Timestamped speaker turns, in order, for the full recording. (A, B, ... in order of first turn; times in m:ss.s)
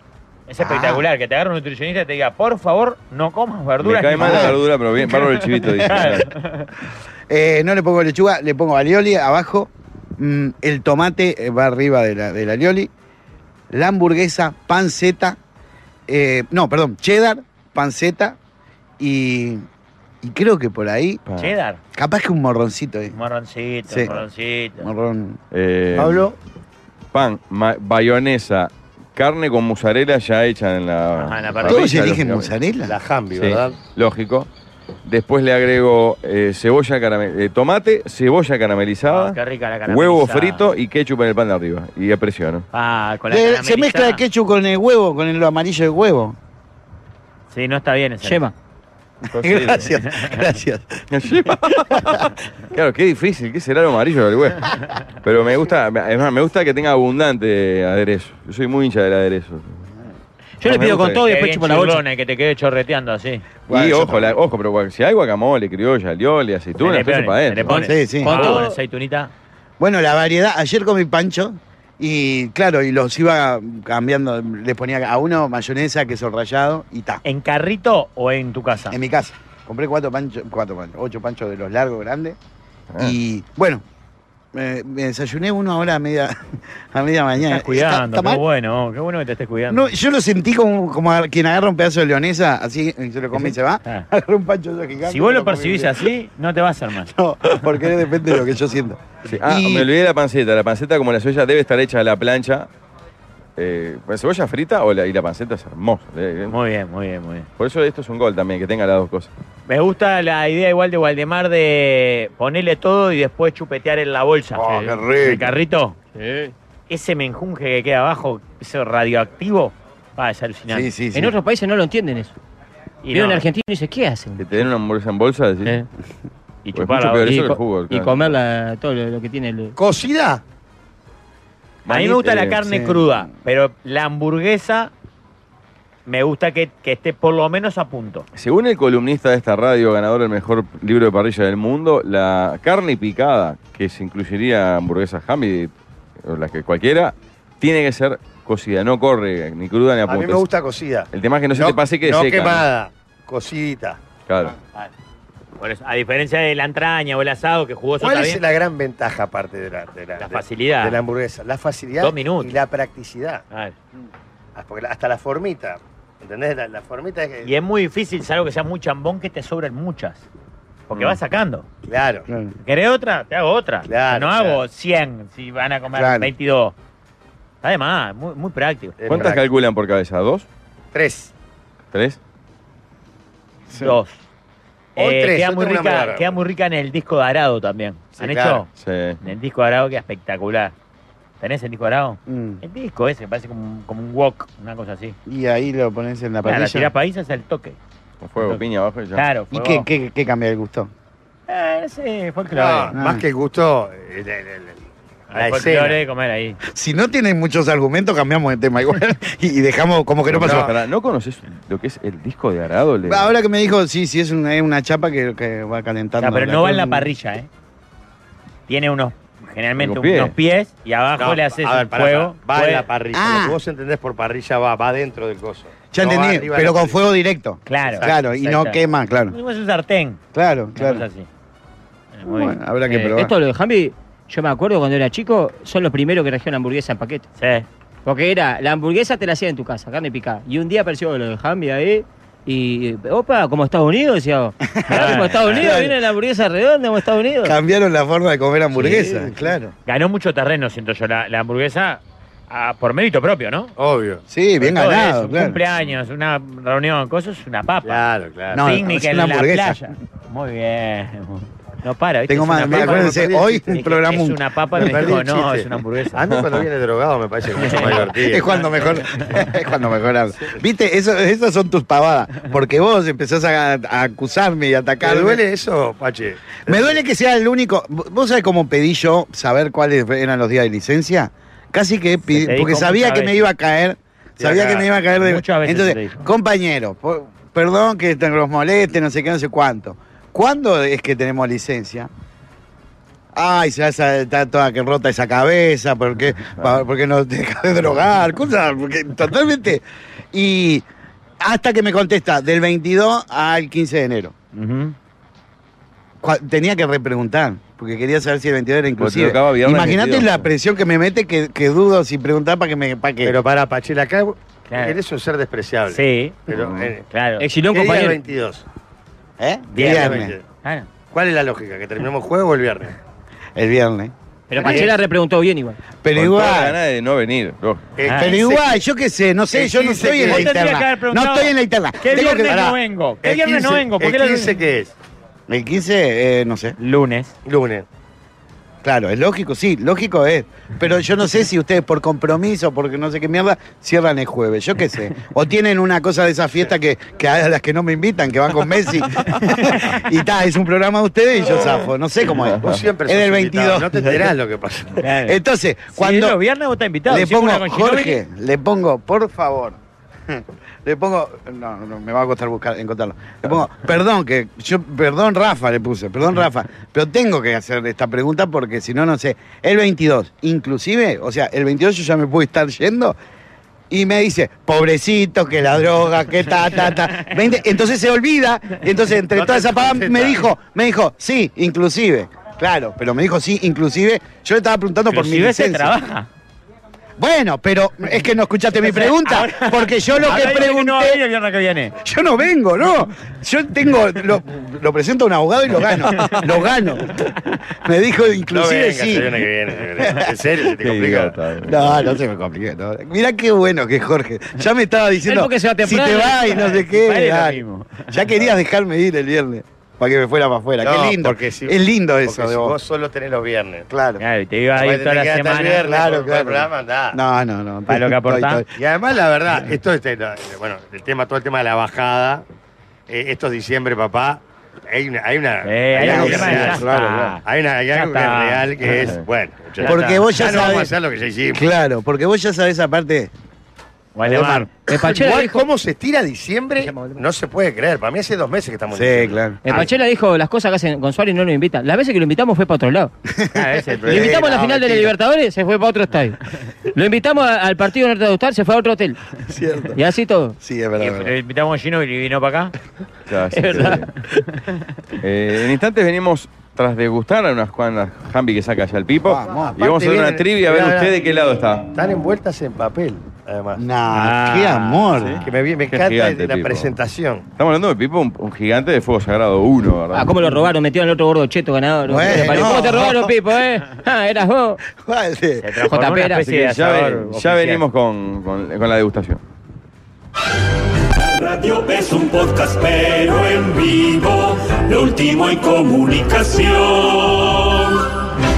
0:00.5-0:06.7 A
0:00.6-0:01.0 B
0:03.8-0:06.3 C
0:04.2-0:04.6 B
0:07.3-0:12.9 B
0:13.7-0:15.4 B
0:16.1-0:18.4 B
0:19.0-0:19.6 B
0:20.2-0:21.2 B
0:21.2-0:21.5 C
0:21.4-0:21.8 A
0:21.9-0:23.2 B
0:23.1-0:24.9 A
0:23.9-0:24.2 B
0:24.8-0:25.4 B
0:25.5-0:26.3 C
0:26.0-0:26.4 D
0:27.1-0:32.5 C
0:31.2-0:31.9 A
0:31.6-0:33.0 B
0:32.8-0:33.8 D
0:33.3-0:34.5 C
0:35.0-0:42.6 C
0:39.1-0:40.7 A
0:42.7-0:44.2 A
0:43.3-0:46.4 B
0:47.5-0:48.4 A
0:48.2-0:48.5 E
0:49.3-0:51.1 B
0:49.4-0:49.9 C
0:49.4-0:50.4 A
0:51.1-0:59.8 C
0:51.7-0:52.3 B
1:00.6-1:02.0 E
1:00.6-1:01.2 C
1:01.2-1:03.4 A
1:03.7-1:04.4 B
1:03.7-1:07.9 C
1:06.8-1:09.3 A
1:07.7-1:08.6 B
1:08.2-1:08.8 E
1:09.8-1:17.2 B
1:17.2-1:19.0 A
1:18.9-1:22.4 B
1:23.0-1:23.8 B
1:24.5-1:28.4 B
1:27.5-1:29.9 A
1:29.7-1:36.0 B
1:33.4-1:34.1 A
1:35.0-1:37.1 A
1:37.0-1:39.9 B
1:39.2-1:42.7 C
1:43.6-1:46.5 C
1:46.5-1:47.4 A
1:47.6-1:49.3 C
1:49.7-1:54.6 A
1:54.5-1:55.5 B
1:54.6-1:55.0 E
1:55.2-1:56.0 A
1:56.1-1:56.5 E
1:56.9-2:00.9 A
2:00.7-2:01.3 B
2:01.1-2:02.3 E
2:03.0-2:03.4 A
2:03.1-2:04.4 E
2:04.4-2:05.8 C
2:06.6-2:07.4 A
2:06.7-2:08.3 C
2:07.2-2:09.8 E
2:09.8-2:10.4 D
2:11.8-2:12.6 C
2:11.9-2:14.9 A
2:12.6-2:13.3 B
2:16.0-2:18.2 A
2:18.4-2:25.7 C
2:26.2-2:30.4 C
2:30.1-2:34.0 D
2:31.1-2:32.6 C
2:34.3-2:34.5 C
2:35.6-2:38.4 A
2:38.0-2:43.4 D
2:40.2-2:41.0 A
2:42.0-2:42.6 A
2:44.5-2:47.5 D
2:47.4-2:50.2 A
2:50.9-2:51.6 A
2:51.8-2:52.3 D
2:52.3-2:52.5 B
2:52.6-2:56.7 A
2:53.9-2:54.6 D
2:55.9-2:56.3 B
2:57.6-2:59.0 A
2:59.0-2:59.4 D
2:59.1-3:00.4 C
3:00.9-3:01.3 D
3:01.9-3:02.2 C
3:03.7-3:04.0 B
3:03.7-3:04.2 A
3:05.0-3:06.4 D
3:05.0-3:08.7 A
3:08.2-3:08.6 D
3:08.8-3:09.2 C
3:09.2-3:10.7 A
3:11.4-3:15.2 A
3:12.3-3:12.6 B
3:15.2-3:16.9 B
3:16.4-3:17.8 A
3:18.2-3:19.2 C
3:19.1-3:19.8 A
3:19.5-3:20.9 B
3:21.5-3:22.9 A
3:22.5-3:26.0 D
3:22.9-3:23.2 B
3:25.3-3:26.6 A
3:26.7-3:30.7 B
3:30.3-3:33.3 C
3:30.4-3:30.7 D
3:33.0-3:37.1 B
3:36.2-3:37.5 A
3:38.7-3:42.8 A
3:39.8-3:40.3 C
3:41.2-3:47.0 D
3:43.1-3:43.6 B
3:45.9-3:49.4 B
3:47.7-3:50.2 A
3:47.9-3:48.2 D
3:50.3-3:51.0 B
3:50.8-3:51.3 A
3:52.1-3:52.6 A
3:52.2-3:53.3 B
3:52.9-3:57.2 E
3:57.4-3:57.6 A
3:58.0-4:07.6 E
4:04.7-4:06.0 B
4:04.9-4:05.6 A
4:07.4-4:09.7 B
4:08.7-4:09.4 E
4:09.8-4:13.7 A
4:13.8-4:14.2 D
4:14.3-4:15.6 B
4:14.6-4:18.0 A
4:17.8-4:18.7 D
4:18.5-4:19.9 B
4:18.6-4:26.2 A
4:22.3-4:25.2 B
4:22.7-4:23.7 D
4:24.8-4:28.6 D
4:26.3-4:26.6 C
4:27.6-4:29.4 A
4:27.7-4:35.4 B
4:35.0-4:37.0 D
4:36.6-4:52.1 B
4:42.3-4:43.4 A
4:44.4-4:44.9 D
4:45.2-4:46.2 A
4:53.3-5:00.8 B
5:01.4-5:04.3 B
5:04.5-5:04.9 A
5:06.2-5:13.4 B
5:09.0-5:10.4 C
5:13.2-5:17.0 D
5:14.7-5:15.0 A
5:15.9-5:16.4 A
5:16.5-5:16.9 C
5:17.1-5:17.4 A
5:17.4-5:18.2 E
5:17.7-5:18.6 D
5:19.4-5:20.3 B
5:19.7-5:20.9 A
5:19.8-5:20.4 D
5:21.1-5:23.0 D
5:23.6-5:24.8 B
5:24.5-5:25.8 E
5:24.6-5:24.9 D
5:26.0-5:26.8 B
5:26.1-5:27.9 C
5:28.0-5:28.8 D
5:28.0-5:28.3 A
5:28.1-5:32.8 B
5:29.5-5:30.5 D
5:30.2-5:34.6 A
5:33.2-5:34.9 D
5:35.5-5:36.8 B
5:36.8-5:37.3 A
5:37.4-5:37.8 D
5:38.8-5:54.3 B
5:52.4-5:52.7 C
5:52.6-5:55.0 D
5:55.0-5:55.4 A
5:55.2-5:56.4 B
5:55.9-5:58.2 A
5:57.1-5:59.8 B
6:00.3-6:13.2 B
6:13.9-6:26.0 B
6:19.3-6:20.5 D
6:25.1-6:26.3 A
6:27.2-6:31.2 B
6:28.8-6:31.9 A
6:32.0-6:37.2 B
6:36.2-6:36.5 A
6:37.8-6:39.4 B
6:38.5-6:41.4 D
6:40.0-6:40.2 B
6:40.8-6:42.1 C
6:41.6-6:52.7 B
6:45.2-6:46.6 E
6:46.5-6:48.1 A
6:50.8-6:53.9 D
6:53.9-6:54.2 B
6:54.2-6:56.0 A
6:54.8-6:57.2 D
6:56.0-6:58.7 B
6:57.9-6:58.6 A
6:58.8-7:02.4 D
7:03.1-7:11.6 D
7:05.6-7:07.4 A
7:06.0-7:07.3 B
7:07.9-7:08.6 A
7:09.8-7:10.2 A
7:09.8-7:10.9 B
7:11.5-7:13.3 B
7:14.1-7:14.7 A
7:14.2-7:14.8 B
7:14.9-7:15.6 E
7:14.9-7:19.9 D
7:18.9-7:19.8 B
7:19.6-7:23.1 E
7:23.4-7:24.5 B
7:23.5-7:24.3 A
7:24.1-7:25.1 D
7:24.1-7:26.4 E
7:26.9-7:29.2 E
7:29.5-7:30.0 B
7:29.9-7:30.6 E
7:30.6-7:31.3 B
7:31.0-7:32.7 A
7:33.3-7:34.1 C
7:33.5-7:34.0 E
7:35.2-7:41.9 C
7:39.2-7:39.7 B
7:39.7-7:41.1 D
7:41.9-7:43.8 D
7:43.8-7:45.4 B
7:44.1-7:45.5 A
7:45.2-7:47.0 C
7:45.4-7:47.4 D
7:47.6-7:50.3 C
7:50.1-7:54.8 E
7:52.0-7:53.3 B
7:54.9-7:55.8 B
7:55.6-7:57.8 A
7:55.9-7:56.4 E
7:56.4-7:59.4 C
8:01.3-8:08.0 F